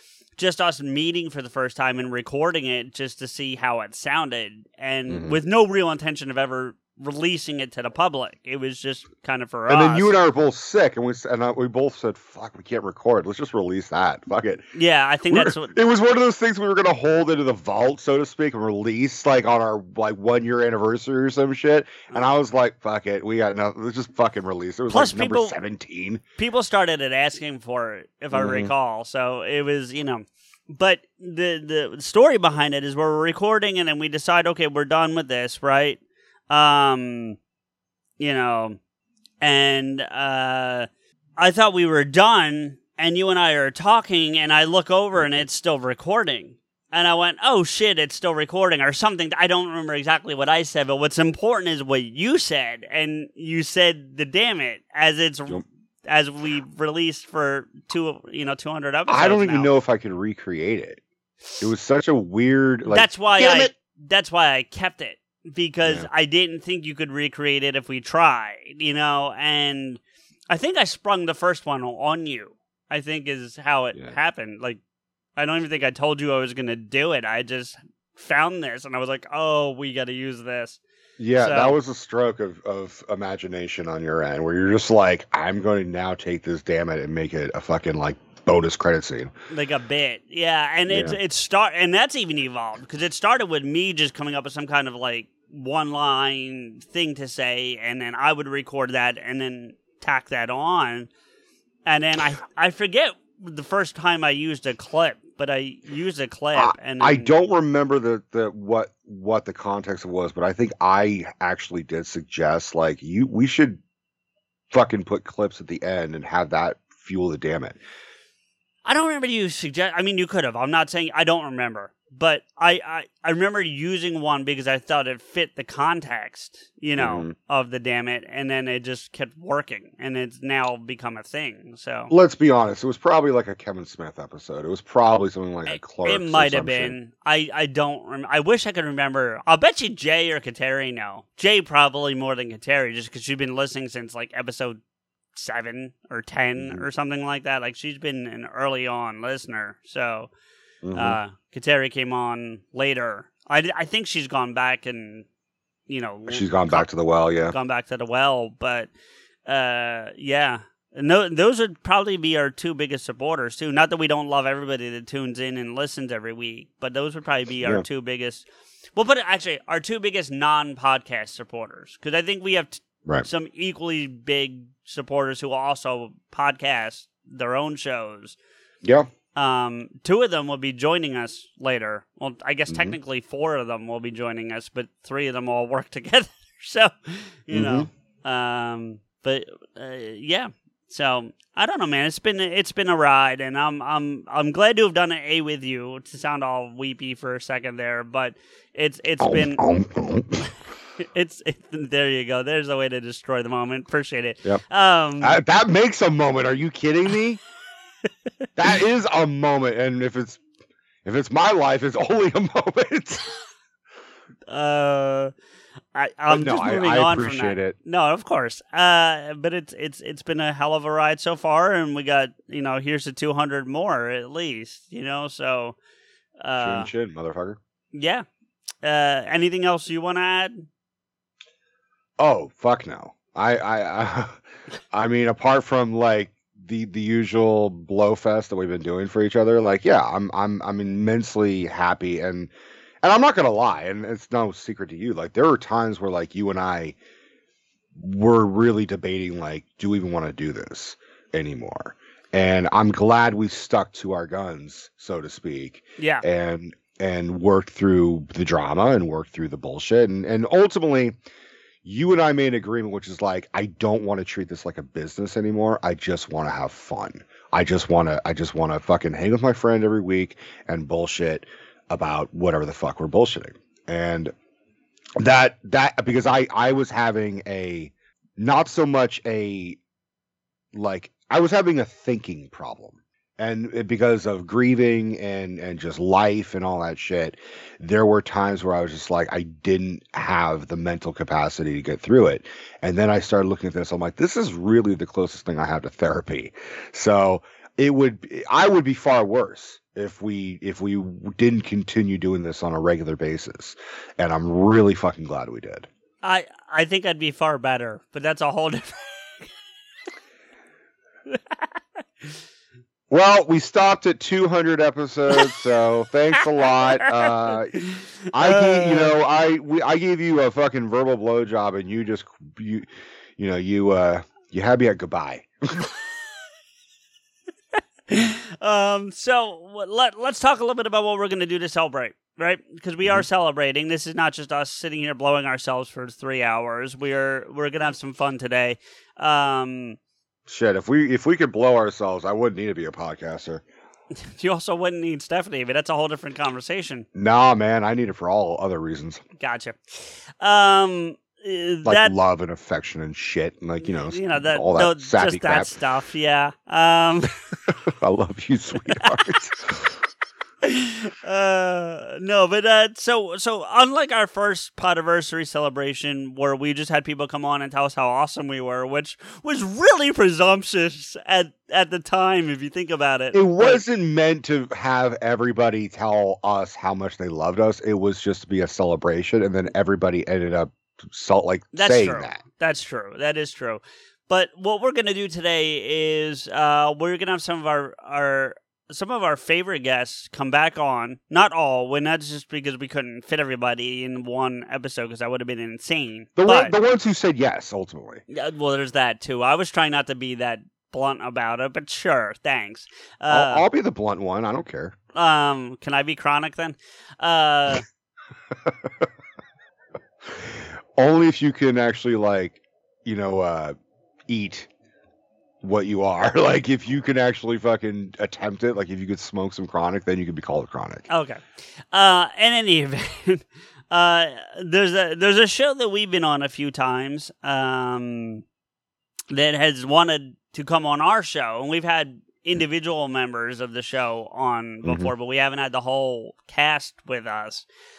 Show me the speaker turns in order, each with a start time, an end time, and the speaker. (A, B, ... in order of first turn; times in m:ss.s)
0:00.4-0:10.1 A
0:05.1-0:05.4 B
0:09.7-0:14.7 B
0:14.7-0:15.7 A
0:15.3-0:26.2 B
0:24.9-0:25.5 A
0:26.4-0:36.0 A
0:28.3-0:28.7 B
0:36.5-0:37.4 A
0:38.2-0:38.8 A
0:39.4-0:40.9 A
0:41.4-0:59.7 A
0:45.2-0:45.4 B
0:59.1-1:01.0 B
1:01.6-1:03.7 B
1:02.9-1:14.8 A
1:15.4-1:20.8 A
1:21.2-1:29.3 B
1:21.4-1:21.8 A
1:29.5-1:41.1 A
1:30.9-1:31.2 B
1:41.8-1:47.3 A
1:46.5-1:53.8 B
1:54.7-1:57.8 B
1:58.8-2:12.1 A
2:07.0-2:07.3 B
2:12.1-2:16.9 B
2:15.7-2:24.8 A
2:25.3-2:30.3 A
2:26.6-2:26.8 B
2:30.8-2:31.2 B
2:30.9-2:35.2 A
2:35.9-2:36.9 A
2:36.3-2:37.5 B
2:37.5-2:38.9 A
2:39.4-2:48.4 A
2:49.0-2:58.4 A
2:58.8-2:59.1 B
2:59.4-3:19.6 A
3:02.7-3:02.9 B
3:07.5-3:07.9 B
3:19.2-3:20.4 B
3:21.1-3:25.4 A
3:25.2-3:27.4 B
3:28.6-3:30.4 B
3:31.0-3:33.2 B
3:34.5-3:35.3 A
3:35.9-3:45.8 A
3:36.3-3:37.8 B
3:46.4-3:46.9 A
3:46.6-3:47.6 B
3:47.9-3:48.2 A
3:48.8-3:50.6 A
3:52.2-3:54.4 B
3:54.9-4:02.5 B
4:03.0-4:07.0 B
4:08.0-4:21.1 B
4:16.0-4:16.2 A
4:21.8-4:34.3 B
4:35.2-4:39.8 B
4:40.7-5:05.9 B
5:06.2-5:09.2 A
5:13.1-5:25.5 B
5:18.4-5:19.1 A
5:28.1-5:40.0 A
5:40.5-5:43.6 B
5:44.4-5:47.0 A
5:47.1-5:49.2 B
5:49.4-5:52.1 A
5:51.8-5:55.8 B
5:53.9-5:57.3 A
5:57.9-5:59.9 B
6:00.6-6:13.8 A
6:13.3-6:22.4 B
6:21.7-6:36.7 A
6:36.4-6:38.2 B
6:38.3-6:43.6 A
6:43.3-6:44.9 B
6:45.1-6:47.8 A
6:51.0-6:53.8 B
6:54.3-6:54.7 B
6:55.6-7:01.0 B
7:01.1-7:01.4 A
7:01.9-7:08.4 A
7:09.3-7:17.6 A
7:14.8-7:15.1 B